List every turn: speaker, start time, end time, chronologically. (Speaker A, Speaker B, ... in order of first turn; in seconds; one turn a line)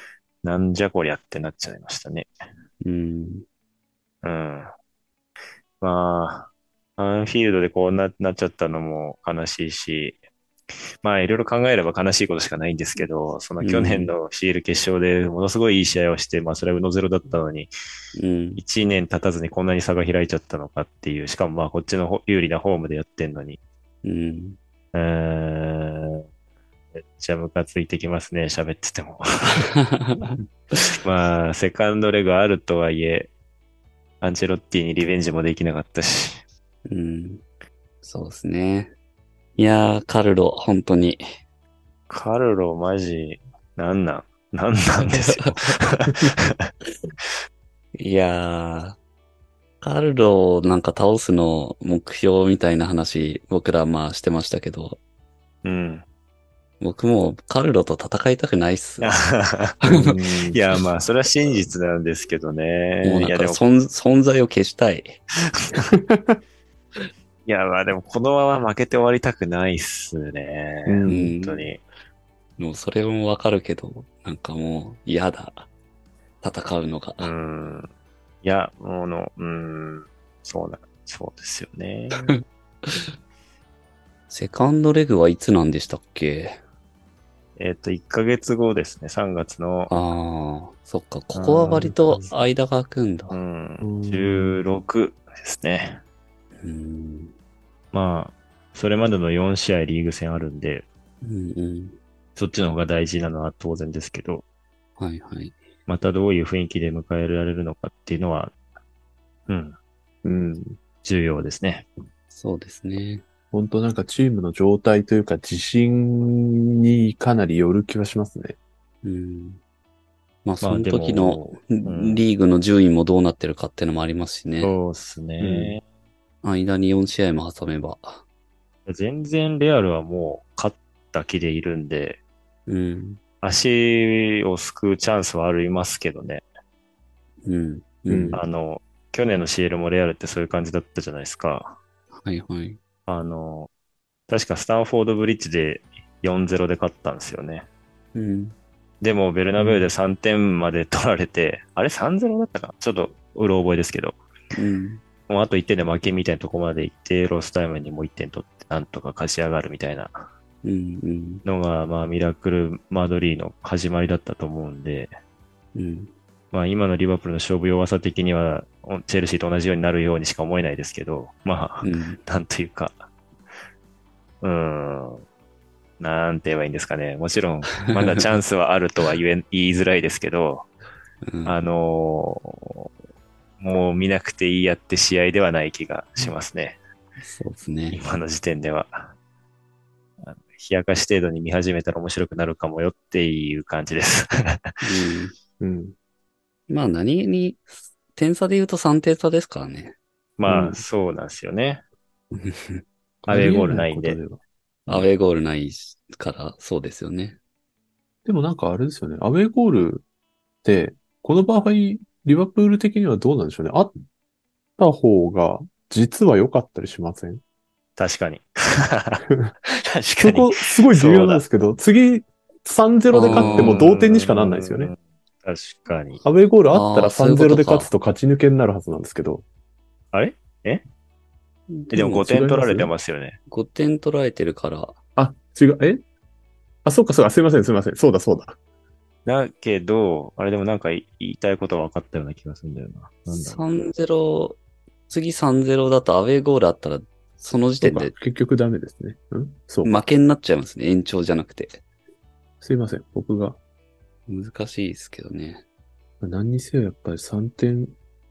Speaker A: 0.4-2.3
Speaker B: 2.8-3.4
Speaker A: 4.2-4.7
Speaker A: 5.8-10.2
Speaker A: 11.0-17.7
Speaker B: 13.6-14.1
Speaker B: 18.1-18.6
Speaker A: 18.6-23.6
Speaker B: 24.0-24.6
Speaker A: 24.9-26.2
Speaker A: 26.9-29.7
Speaker B: 29.6-30.9
Speaker A: 30.9-33.3
Speaker A: 34.2-36.4
Speaker B: 36.9-37.4
Speaker B: 38.0-38.9
Speaker B: 39.5-41.2
Speaker A: 42.1-46.7
Speaker B: 45.0-45.8
Speaker B: 48.0-49.0
Speaker B: 49.8-55.0
Speaker A: 55.6-56.0
Speaker B: 56.8-59.2
Speaker A: 59.0-63.6
Speaker B: 59.8-60.1
Speaker C: 59.9-60.6
Speaker B: 63.0-65.2
Speaker A: 65.6-65.9
Speaker C: 65.8-66.4
Speaker A: 67.5-71.8
Speaker C: 70.8-71.3
Speaker B: 71.1-71.7
Speaker B: 72.6-75.7
Speaker B: 76.4-77.3
Speaker A: 77.2-77.9
Speaker A: 78.4-82.3
Speaker B: 82.3-83.1
Speaker B: 84.3-86.6
Speaker A: 87.6-89.9
Speaker B: 89.9-93.4
Speaker A: 91.3-92.2
Speaker A: 93.3-96.0
Speaker C: 93.8-94.6
Speaker B: 96.6-97.3
Speaker A: 97.9-100.8
Speaker B: 101.2-102.0
Speaker A: 102.3-104.4
Speaker B: 105.0-105.6
Speaker A: 105.9-108.5
Speaker A: 109.5-109.8
Speaker C: 110.2-110.8
Speaker A: 111.0-111.9
Speaker B: 112.3-113.2
Speaker C: 113.5-118.6
Speaker B: 119.0-119.6
Speaker B: 120.4-124.7
Speaker A: 120.6-122.3
Speaker A: 124.6-125.8
Speaker C: 125.4-125.8
Speaker B: 126.4-128.2
Speaker A: 128.8-132.2
Speaker B: 132.7-133.2
Speaker A: 133.4-136.4
Speaker B: 137.4-138.4
Speaker C: 138.1-138.4
Speaker A: 138.3-141.8
Speaker B: 142.2-142.8
Speaker A: 143.1-143.7
Speaker A: 144.3-147.7
Speaker B: 148.1-148.5
Speaker A: 149.0-154.2
Speaker C: 149.6-149.8
Speaker B: 154.5-155.0
Speaker A: 155.3-160.3
Speaker B: 160.6-161.4
Speaker A: 161.4-165.1
Speaker B: 165.7-166.1
Speaker A: 166.5-173.1
Speaker B: 171.8-172.2
Speaker A: 174.4-175.2
Speaker A: 176.0-180.7
Speaker B: 177.8-178.2
Speaker B: 181.2-181.6
Speaker A: 181.4-182.9
Speaker A: 183.6-186.8
Speaker B: 187.2-188.0
Speaker A: 187.9-189.1
Speaker A: 190.2-194.8
Speaker B: 194.8-195.3
Speaker C: 195.6-195.9
Speaker B: 196.7-199.9
Speaker A: 200.4-201.8
Speaker C: 200.5-200.8
Speaker B: 202.3-202.8
Speaker C: 203.2-205.0
Speaker A: 203.3-204.2
Speaker B: 204.9-207.4
Speaker C: 208.2-210.0
Speaker C: 210.6-214.0
Speaker C: 214.8-217.4
Speaker A: 218.0-221.4
Speaker C: 220.2-224.9
Speaker B: 223.1-223.8
Speaker A: 223.2-226.2
Speaker C: 226.2-229.4
Speaker B: 226.7-227.9
Speaker A: 230.1-230.8
Speaker B: 231.7-232.3
Speaker A: 231.9-233.4
Speaker C: 232.2-232.9
Speaker B: 233.5-234.9
Speaker C: 235.2-236.0
Speaker C: 236.8-238.6
Speaker A: 239.2-243.6
Speaker B: 243.3-244.6
Speaker B: 245.1-248.1
Speaker C: 247.8-250.0
Speaker B: 249.8-251.8
Speaker C: 252.6-253.6
Speaker B: 254.3-255.6
Speaker C: 256.2-257.9